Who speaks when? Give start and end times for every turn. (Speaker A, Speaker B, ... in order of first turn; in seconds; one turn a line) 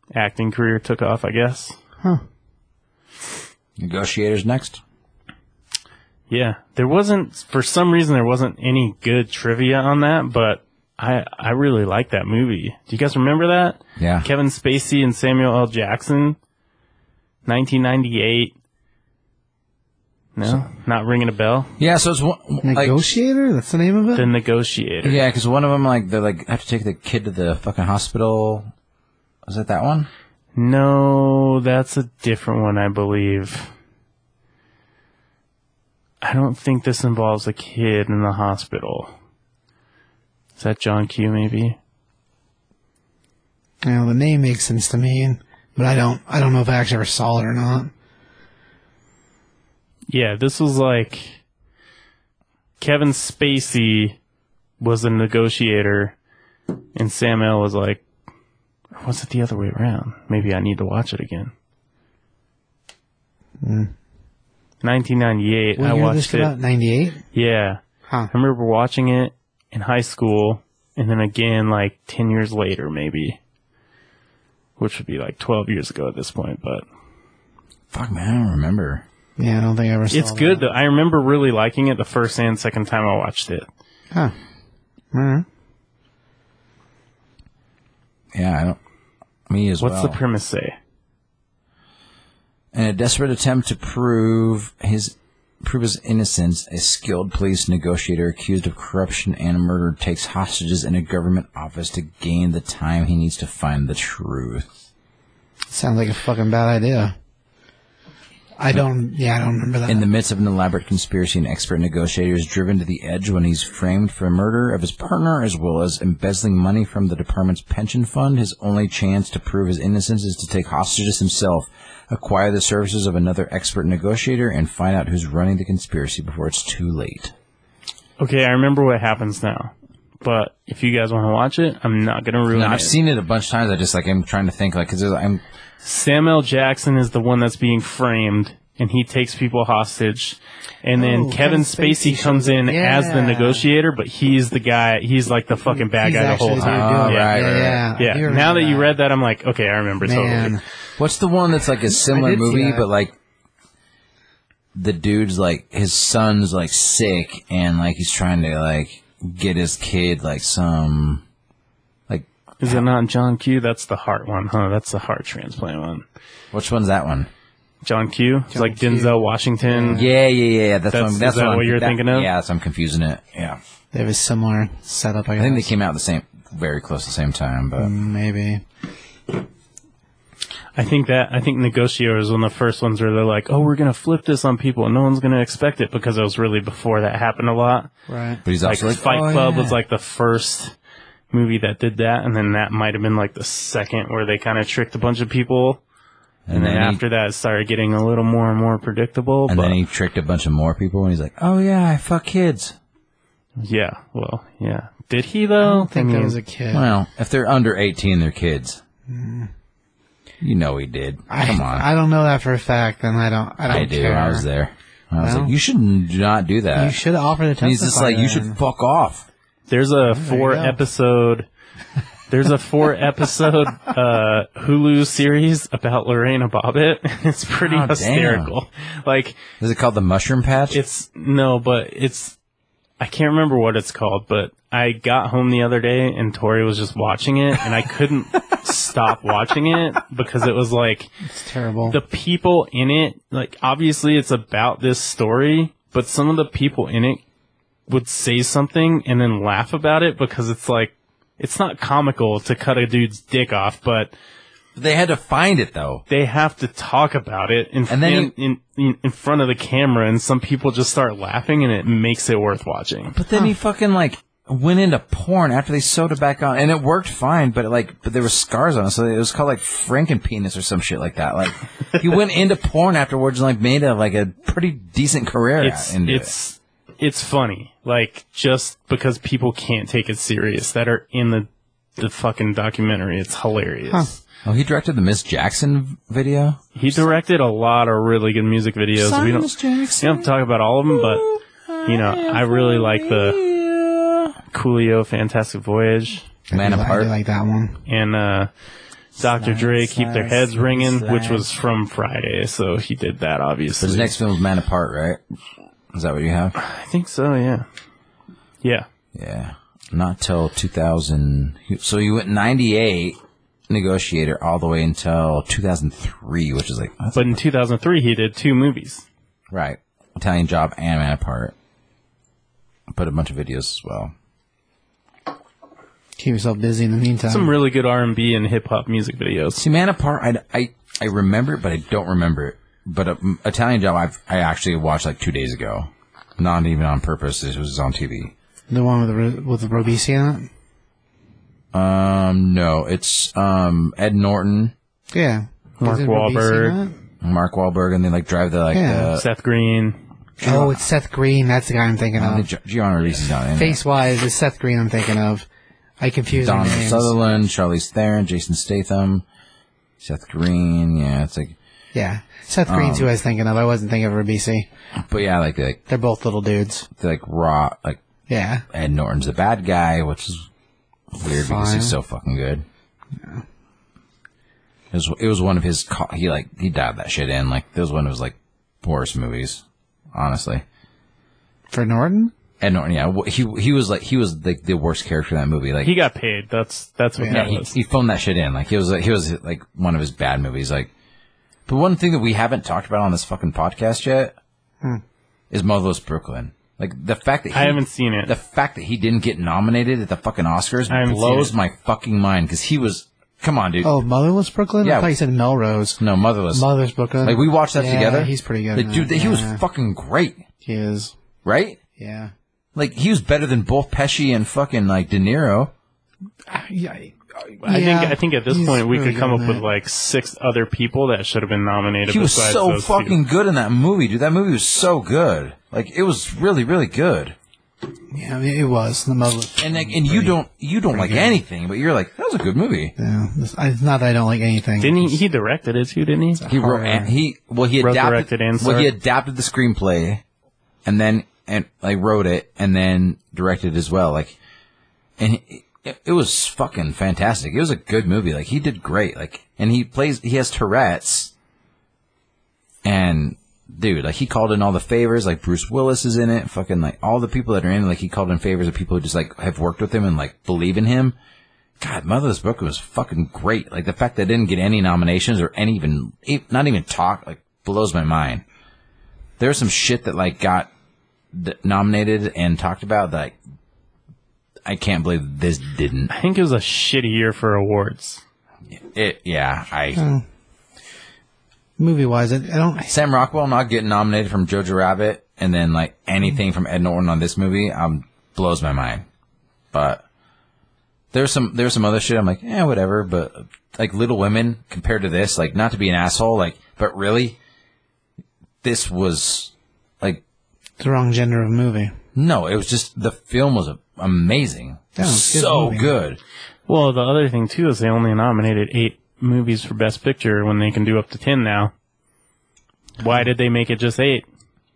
Speaker A: 0.1-1.8
Speaker B: 3.8-4.8
Speaker A: 6.3-16.4
Speaker B: 14.0-14.3
Speaker A: 17.4-18.5
Speaker A: 20.3-21.7
Speaker B: 21.8-23.0
Speaker C: 22.6-24.3
Speaker A: 24.1-25.2
Speaker B: 25.0-28.7
Speaker B: 29.4-30.1
Speaker A: 30.5-33.7
Speaker A: 36.2-39.1
Speaker A: 40.6-41.8
Speaker C: 43.8-47.9
Speaker A: 50.1-51.4
Speaker A: 52.8-54.1
Speaker A: 54.8-56.1
Speaker A: 57.0-58.0
Speaker A: 58.9-61.5
Speaker C: 63.6-63.9
Speaker A: 64.8-66.5
Speaker C: 65.8-67.2
Speaker A: 67.3-67.8
Speaker A: 68.3-73.4
Speaker A: 74.8-76.8
Speaker B: 77.9-79.0
Speaker C: 79.4-80.6
Speaker A: 80.1-83.7
Speaker C: 85.1-85.4
Speaker B: 88.3-88.8
Speaker B: 89.5-90.2
Speaker A: 89.8-90.8
Speaker B: 92.7-104.7
Speaker C: 105.7-107.1
Speaker C: 108.6-110.0
Speaker B: 109.9-127.3
Speaker A: 128.2-132.9
Speaker B: 132.5-135.4
Speaker A: 135.8-147.4
Speaker C: 141.0-143.6
Speaker C: 145.7-148.9
Speaker B: 146.6-147.9
Speaker A: 148.0-150.6
Speaker C: 150.0-150.6
Speaker B: 151.0-153.2
Speaker C: 151.9-152.9
Speaker B: 154.7-161.2
Speaker B: 162.1-162.8
Speaker A: 162.6-166.0
Speaker B: 166.5-167.3
Speaker A: 167.8-170.1
Speaker C: 168.5-170.1
Speaker B: 169.9-173.6
Speaker A: 170.9-172.3
Speaker C: 173.9-175.7
Speaker B: 175.4-177.9
Speaker C: 177.8-178.6
Speaker A: 180.7-187.9
Speaker C: 188.1-188.4
Speaker B: 188.4-189.8
Speaker A: 188.6-190.7
Speaker A: 191.3-195.8
Speaker B: 196.5-197.0
Speaker A: 196.5-199.8
Speaker B: 199.5-202.8
Speaker A: 203.6-206.4
Speaker C: 205.6-206.9
Speaker B: 206.7-208.8
Speaker C: 209.1-209.5
Speaker B: 210.4-211.8
Speaker C: 211.3-214.4
Speaker B: 213.7-217.0
Speaker C: 215.2-215.5
Speaker C: 216.7-218.6
Speaker B: 217.6-219.2
Speaker A: 219.7-221.5
Speaker C: 220.0-220.8
Speaker A: 222.3-229.4
Speaker B: 227.6-228.5
Speaker B: 229.6-230.8
Speaker A: 230.7-232.4
Speaker A: 233.0-241.1
Speaker C: 241.2-242.0
Speaker A: 241.9-247.2
Speaker A: 247.9-254.1
Speaker B: 254.8-256.0
Speaker A: 256.1-263.1
Speaker B: 257.9-258.3
Speaker B: 263.1-276.3
Speaker A: 275.6-284.1
Speaker B: 284.4-286.7
Speaker A: 286.8-291.3
Speaker B: 288.9-290.3
Speaker B: 290.9-294.4
Speaker A: 291.8-293.4
Speaker A: 294.5-296.2
Speaker C: 296.5-297.8
Speaker B: 296.5-297.1
Speaker A: 297.9-298.5
Speaker A: 299.1-304.1
Speaker C: 299.2-301.4
Speaker B: 303.8-305.2
Speaker B: 305.9-306.6
Speaker A: 306.6-307.6
Speaker B: 309.1-313.2
Speaker B: 313.7-317.4
Speaker A: 317.1-319.0
Speaker B: 319.5-321.5
Speaker B: 322.9-324.1
Speaker C: 326.2-327.5
Speaker A: 327.3-329.6
Speaker B: 329.6-338.3
Speaker C: 338.7-340.5
Speaker B: 341.7-344.7
Speaker C: 345.1-347.0
Speaker A: 345.8-346.8
Speaker B: 347.2-349.2
Speaker C: 348.7-349.1
Speaker A: 349.1-350.0
Speaker C: 350.4-352.5
Speaker B: 350.4-350.8
Speaker B: 352.1-353.8
Speaker C: 353.5-355.5
Speaker C: 356.0-357.1
Speaker B: 356.3-359.2
Speaker B: 360.0-361.5
Speaker C: 361.9-364.7
Speaker B: 362.7-363.1
Speaker B: 364.9-365.8
Speaker C: 365.9-366.9
Speaker B: 366.9-368.0
Speaker C: 368.3-368.6
Speaker B: 368.7-370.5
Speaker B: 371.1-372.6
Speaker C: 371.2-371.9
Speaker B: 374.9-379.6
Speaker B: 380.1-380.6
Speaker C: 381.7-382.3
Speaker B: 382.6-385.9
Speaker A: 385.8-387.7
Speaker C: 387.2-387.5
Speaker B: 387.3-390.9
Speaker B: 391.7-394.3
Speaker B: 395.5-403.9
Speaker A: 397.5-398.3
Speaker A: 400.9-401.5
Speaker C: 403.8-406.0
Speaker B: 404.8-405.1
Speaker B: 406.0-406.7
Speaker C: 406.5-409.6
Speaker B: 407.2-410.4
Speaker C: 410.6-411.1
Speaker B: 411.4-411.8
Speaker C: 412.0-412.3
Speaker B: 412.7-415.7
Speaker C: 416.5-419.6
Speaker A: 417.6-423.1
Speaker B: 422.1-427.4
Speaker C: 428.1-430.4
Speaker B: 429.6-432.9
Speaker C: 430.9-431.4
Speaker C: 433.0-435.1
Speaker A: 434.8-436.4
Speaker C: 436.4-437.1
Speaker B: 436.5-440.2
Speaker A: 437.8-438.9
Speaker B: 440.8-444.4
Speaker B: 445.2-451.3
Speaker B: 452.8-461.2
Speaker B: 461.8-468.4
Speaker B: 469.4-470.7
Speaker B: 471.3-473.3
Speaker B: 474.6-476.1
Speaker A: 476.1-478.2
Speaker B: 478.7-480.0
Speaker C: 479.9-480.2
Speaker C: 481.8-482.9
Speaker B: 482.9-489.0
Speaker B: 489.7-490.0
Speaker B: 491.1-497.4
Speaker B: 498.6-500.2
Speaker C: 500.8-501.9
Speaker B: 502.1-506.2
Speaker C: 504.9-505.9
Speaker A: 506.7-511.7
Speaker A: 513.0-514.2